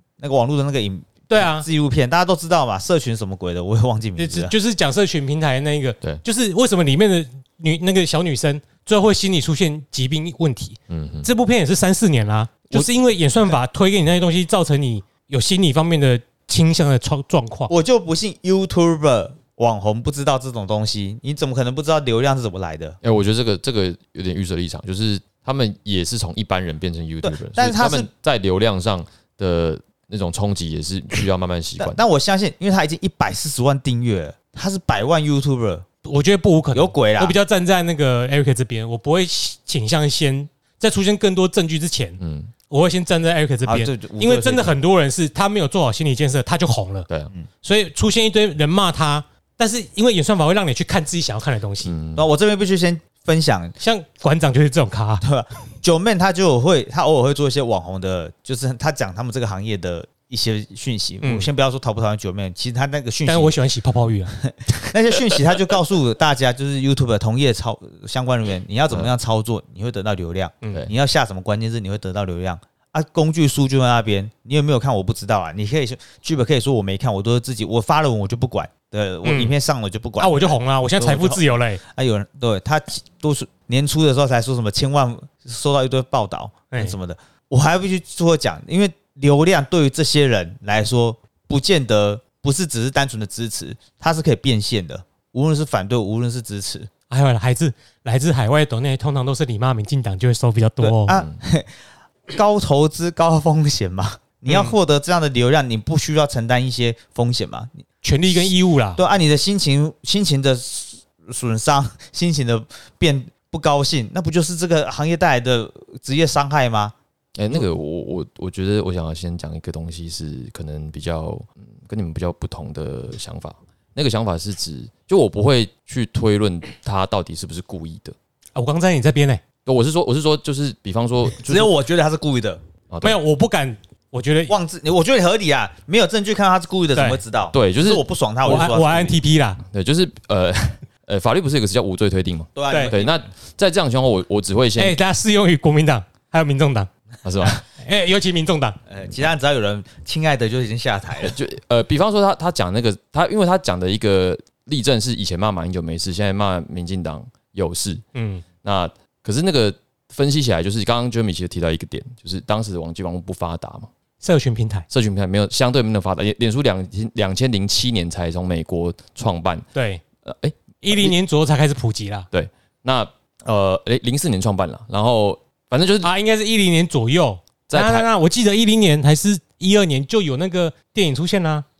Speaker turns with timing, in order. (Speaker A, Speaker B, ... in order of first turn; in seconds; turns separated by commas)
Speaker A: 0.2-4.5, Speaker B: 1.3-1.7, Speaker B: 4.2-17.7, Speaker C: 10.9-11.3, Speaker A: 17.7-23.0, Speaker C: 23.0-32.0, Speaker A: 27.2-28.1, Speaker A: 31.8-35.9, Speaker B: 36.0-42.2, Speaker A: 36.7-37.4, Speaker C: 42.2-42.5, Speaker B: 42.7-47.1, Speaker A: 43.6-44.8, Speaker B: 47.6-51.9, Speaker C: 51.8-52.2, Speaker A: 52.1-53.7, Speaker B: 53.8-55.2, Speaker A: 55.2-63.5, Speaker B: 61.2-61.5, Speaker B: 63.3-64.3, Speaker A: 64.5-96.9, Speaker B: 79.2-79.5, Speaker B: 80.2-81.8, Speaker B: 86.7-87.0, Speaker B: 97.1-101.2, Speaker A: 100.8-101.7, Speaker C: 101.1-101.4, Speaker A: 102.3-116.9, Speaker B: 104.5-104.7, Speaker B: 108.0-109.0, Speaker C: 117.3-128.1, Speaker B: 128.5-129.4, Speaker C: 129.7-131.7, Speaker A: 131.4-132.6, Speaker C: 132.9-133.2, Speaker B: 133.0-134.5, Speaker A: 134.5-139.2, Speaker B: 136.9-137.2, Speaker C: 137.5-138.0, Speaker B: 138.4-139.6, Speaker C: 139.6-145.0, Speaker A: 142.6-143.2, Speaker B: 144.8-146.9, Speaker C: 147.2-147.6, Speaker B: 147.6-148.8, Speaker A: 148.9-151.3, Speaker C: 151.2-158.0, Speaker B: 158.1-158.4, Speaker C: 158.6-163.9, Speaker B: 164.2-164.9, Speaker C: 164.9-169.7, Speaker B: 169.7-170.0, Speaker C: 170.2-171.2, Speaker B: 170.8-172.3, Speaker C: 172.3-176.1, Speaker B: 176.0-181.6, Speaker C: 177.7-178.1